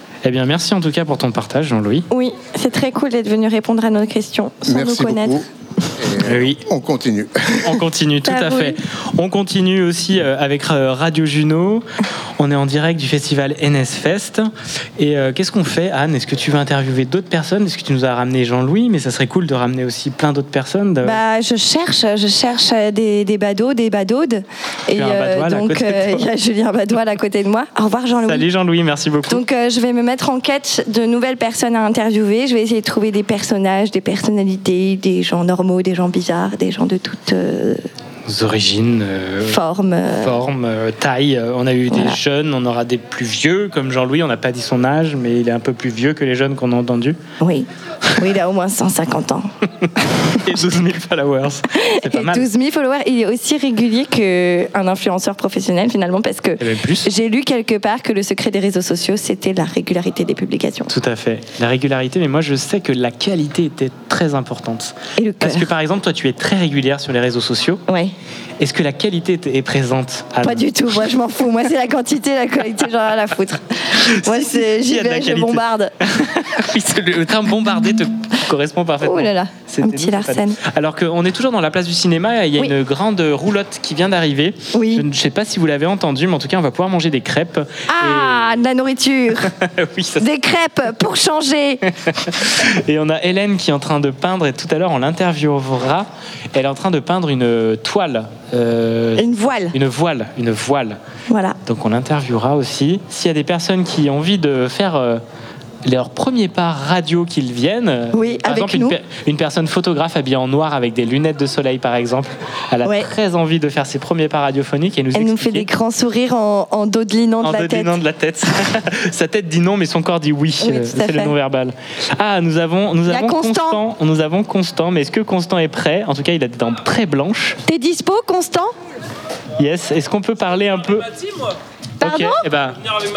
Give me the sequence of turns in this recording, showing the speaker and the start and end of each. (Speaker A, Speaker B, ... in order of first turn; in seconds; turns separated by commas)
Speaker A: 0.2-2.1, Speaker B: 2.1-5.4, Speaker C: 4.6-7.8, Speaker A: 6.2-6.6, Speaker A: 7.6-11.8, Speaker B: 8.2-8.8, Speaker A: 12.4-21.2, Speaker B: 21.0-28.4, Speaker A: 24.9-26.3, Speaker A: 28.2-29.4, Speaker B: 29.3-37.8, Speaker A: 38.2-39.6, Speaker B: 39.4-40.4, Speaker A: 40.1-47.2, Speaker B: 41.9-42.2, Speaker B: 47.4-49.5, Speaker A: 50.3-52.5, Speaker B: 51.7-60.9, Speaker A: 56.6-57.1, Speaker A: 60.9-67.8, Speaker B: 65.2-65.7, Speaker B: 67.9-68.1, Speaker A: 68.6-70.7, Speaker B: 70.4-76.0, Speaker A: 74.0-88.5, Speaker B: 79.0-80.6, Speaker B: 84.7-85.0, Speaker B: 87.9-89.5, Speaker A: 89.5-90.3, Speaker B: 90.2-91.8, Speaker A: 92.0-101.0, Speaker B: 99.2-99.7, Speaker B: 101.3-101.5, Speaker A: 101.7-105.2, Speaker A: 105.8-115.7, Speaker B: 108.1-109.0, Speaker B: 112.8-113.1, Speaker B: 115.1-118.0, Speaker A: 117.4-127.6, Speaker B: 120.6-121.3, Speaker B: 123.1-123.8, Speaker B: 127.7-128.7, Speaker A: 129.6-131.1, Speaker B: 132.0-132.4, Speaker A: 132.0-132.8